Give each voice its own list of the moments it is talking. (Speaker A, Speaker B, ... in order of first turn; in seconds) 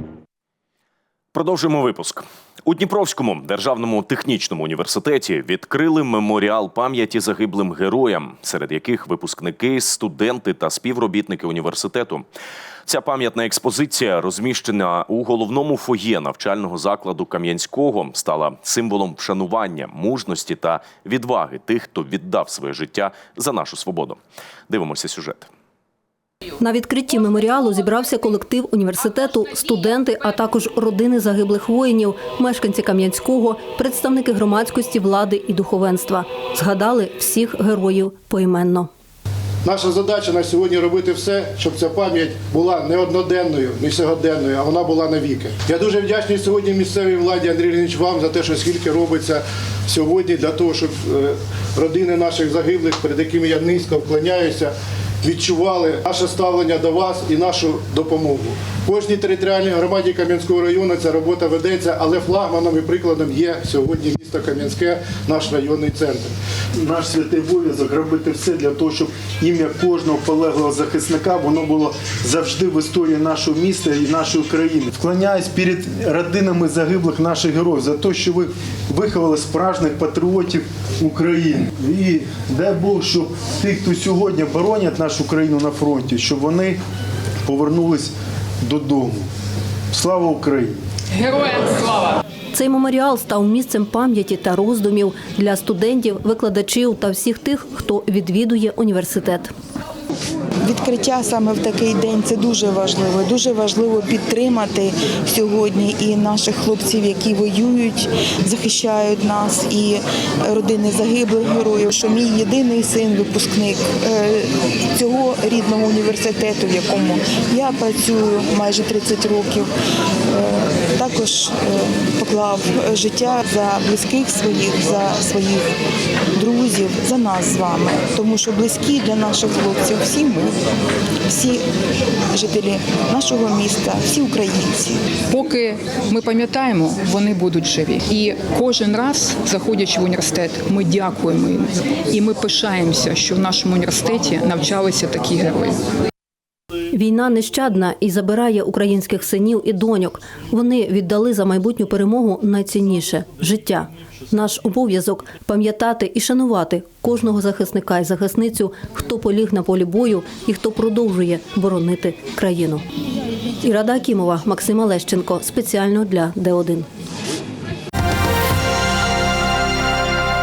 Speaker A: 1.3-12.2, 12.8-25.5
Speaker B: 26.6-38.9, 92.5-99.5, 146.9-162.8, 163.6-166.9
Speaker C: 39.6-66.3
Speaker D: 66.8-86.8, 87.5-89.3, 89.9-90.8
Speaker E: 100.6-119.7, 120.3-125.7, 126.3-130.5, 131.3-131.6, 132.3-135.0
Speaker F: 135.3-145.8